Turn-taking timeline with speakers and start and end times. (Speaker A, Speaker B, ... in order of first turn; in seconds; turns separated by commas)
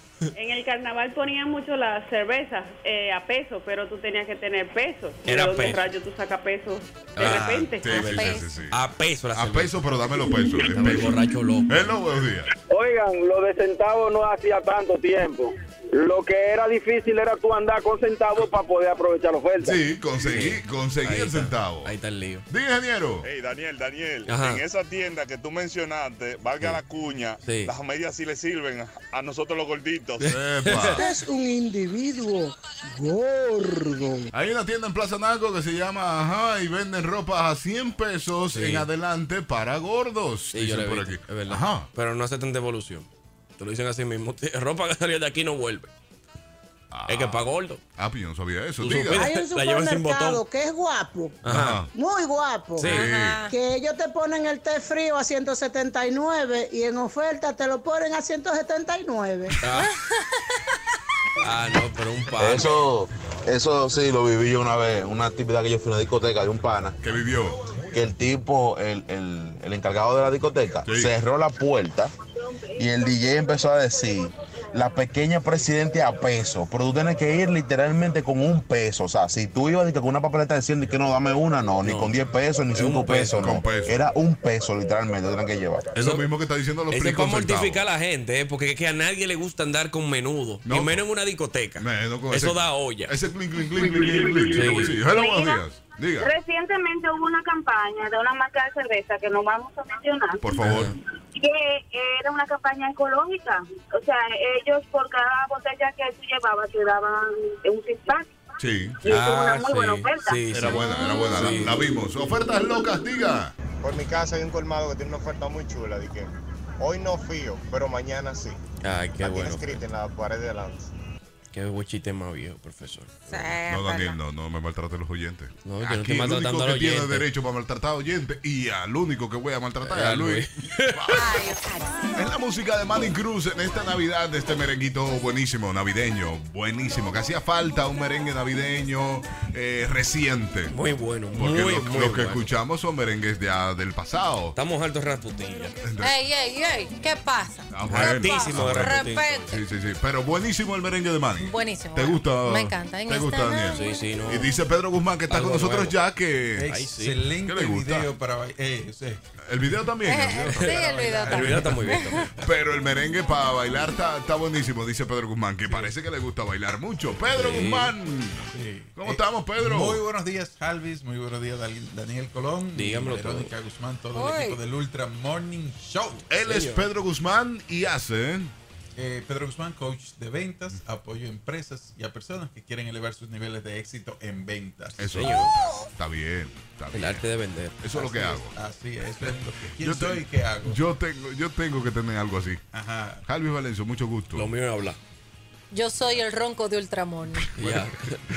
Speaker A: 0.3-8.0, Speaker B: 5.2-5.8, Speaker B: 7.2-9.8, Speaker C: 7.2-8.8, Speaker D: 8.1-8.5, Speaker C: 9.3-11.2, Speaker B: 10.6-11.8, Speaker C: 11.7-12.5, Speaker E: 12.7-19.8, Speaker C: 19.6-21.9, Speaker B: 20.3-22.4, Speaker C: 22.5-23.2, Speaker F: 23.2-30.3, Speaker B: 24.3-24.6, Speaker B: 27.4-27.7, Speaker B: 30.2-31.0, Speaker C: 30.3-31.0, Speaker G: 31.0-34.3, Speaker C: 34.3-41.9, Speaker B: 38.5-38.9, Speaker B: 40.5-43.1, Speaker B: 43.6-45.9, Speaker C: 46.9-47.4, Speaker B: 47.1-47.8, Speaker C: 48.0-49.3, Speaker B: 48.8-50.4, Speaker G: 49.1-51.4, Speaker B: 51.4-51.8, Speaker C: 51.5-51.9, Speaker G: 51.9-52.9, Speaker B: 52.8-53.1, Speaker C: 52.8-53.4, Speaker D: 52.9-53.5, Speaker G: 53.5-59.6, Speaker B: 59.6-59.9, Speaker D: 59.8-60.3, Speaker B: 61.4-62.7, Speaker H: 62.4-67.0, Speaker C: 67.0-67.6, Speaker H: 67.9-72.1, Speaker C: 70.8-71.1, Speaker H: 72.8-85.9, Speaker B: 81.8-82.1, Speaker B: 82.7-83.6, Speaker C: 83.3-84.0, Speaker B: 86.0-86.2, Speaker C: 86.0-87.8, Speaker B: 86.9-93.2, Speaker C: 90.7-91.0, Speaker C: 91.8-96.3, Speaker B: 94.5-95.0, Speaker I: 95.1-95.6, Speaker I: 96.2-100.6, Speaker C: 100.4-100.9, Speaker B: 100.6-101.0, Speaker I: 101.3-108.3, Speaker C: 108.6-109.0, Speaker I: 109.0-110.4, Speaker B: 109.1-111.8, Speaker C: 110.5-113.5, Speaker D: 110.8-111.2, Speaker J: 113.8-118.6, Speaker B: 118.8-119.8, Speaker J: 119.2-120.9, Speaker B: 121.5-123.6, Speaker C: 123.6-131.4, Speaker B: 125.7-127.2, Speaker B: 129.8-131.2, Speaker D: 131.2-132.0, Speaker C: 132.1-140.8, Speaker B: 140.7-142.5, Speaker C: 141.3-144.6, Speaker B: 144.6-145.7, Speaker C: 145.8-146.2, Speaker D: 146.0-149.6, Speaker C: 147.7-156.7, Speaker B: 147.9-149.5, Speaker D: 151.4-154.0, Speaker B: 153.7-154.5, Speaker B: 155.3-156.0, Speaker K: 156.6-159.2, Speaker B: 156.6-157.2, Speaker C: 157.4-158.1, Speaker C: 159.5-161.8, Speaker D: 160.1-162.3, Speaker B: 160.5-162.3, Speaker K: 160.8-161.6, Speaker C: 162.4-170.0, Speaker B: 167.3-167.9, Speaker K: 168.5-176.2, Speaker B: 172.7-173.5, Speaker D: 174.1-174.6, Speaker C: 176.3-178.5, Speaker B: 176.4-176.9, Speaker K: 179.0-185.2, Speaker C: 185.0-187.2, Speaker B: 185.1-185.5, Speaker B: 186.9-187.8, Speaker C: 187.8-188.6, Speaker K: 187.9-190.8, Speaker C: 189.8-192.7, Speaker K: 192.7-193.2, Speaker C: 193.2-194.5, Speaker B: 194.3-195.0, Speaker D: 195.7-197.5, Speaker C: 197.4-197.9, Speaker B: 197.6-198.2